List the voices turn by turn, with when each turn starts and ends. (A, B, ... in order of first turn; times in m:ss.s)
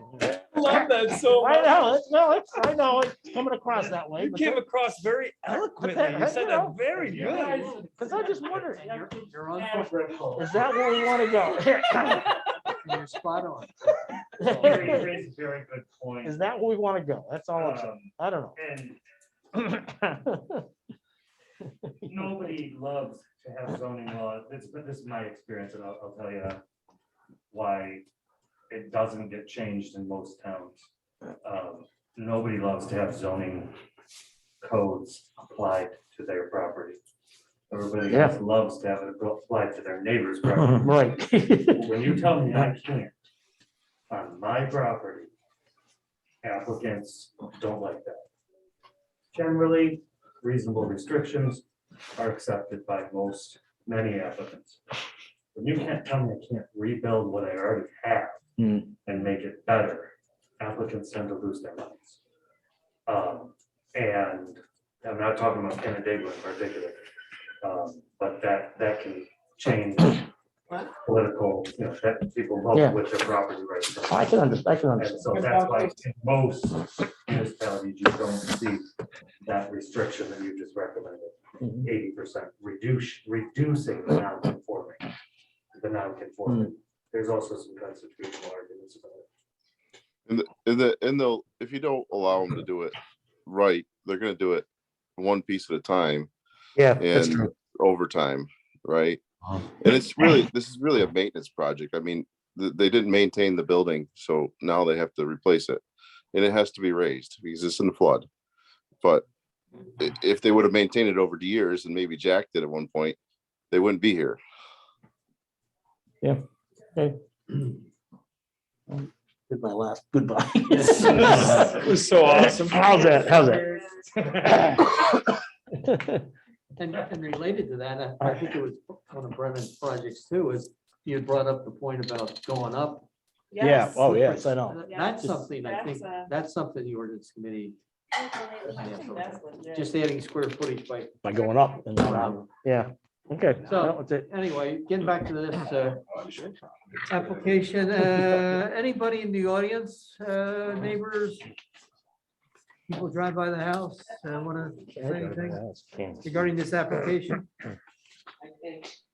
0:00.2-0:01.9 A
0:00.7-0:04.6 B
0:03.8-0:07.6 A
0:05.4-0:08.8 B
0:06.9-0:10.5 C
0:07.2-0:07.8 D
0:08.4-0:09.9 D
0:10.4-0:12.5 B
0:12.8-0:14.7 D
0:14.4-0:15.1 B
0:14.6-0:16.4 C
0:16.2-0:18.6 B
0:17.5-0:19.0 C
0:19.5-0:20.7 B
0:21.8-0:22.4 B
0:22.1-0:26.6 C
0:27.5-0:28.0 C
0:28.7-0:30.8 C
0:31.4-0:33.8 C
0:34.6-0:37.0 C
0:37.7-0:40.9 C
0:38.1-0:38.4 B
0:40.5-0:42.0 B
0:41.7-0:43.1 C
0:44.1-0:45.3 C
0:46.4-0:48.2 C
0:49.3-0:51.6 C
0:52.2-0:54.9 C
0:55.5-0:58.4 C
0:58.6-0:58.9 B
0:59.0-1:02.2 C
1:03.1-1:07.0 C
1:07.6-1:10.3 C
1:10.8-1:14.4 C
1:14.1-1:15.4 B
1:15.0-1:18.8 C
1:19.4-1:25.0 C
1:21.6-1:21.9 B
1:25.8-1:29.2 C
1:30.3-1:32.9 E
1:33.4-1:34.7 E
1:35.2-1:36.3 E
1:36.8-1:37.5 B
1:37.0-1:39.2 E
1:39.8-1:45.8 E
1:46.3-1:48.3 E
1:50.0-1:53.2 E
1:53.7-1:54.4 E
1:58.9-2:05.0 B
2:00.7-2:01.7 D
2:01.1-2:03.3 A
2:03.3-2:03.8 F
2:05.7-2:06.3 B
2:06.8-2:13.1 D
2:13.5-2:14.2 F
2:13.6-2:14.8 B
2:14.0-2:17.8 D
2:14.8-2:16.3 F
2:18.1-2:20.0 F
2:18.6-2:21.3 D
2:21.2-2:24.3 B
2:21.9-2:22.4 D
2:23.6-2:26.5 D
2:27.0-2:31.5 D
2:32.9-2:35.6 D
2:35.0-2:36.2 B
2:36.2-2:37.5 D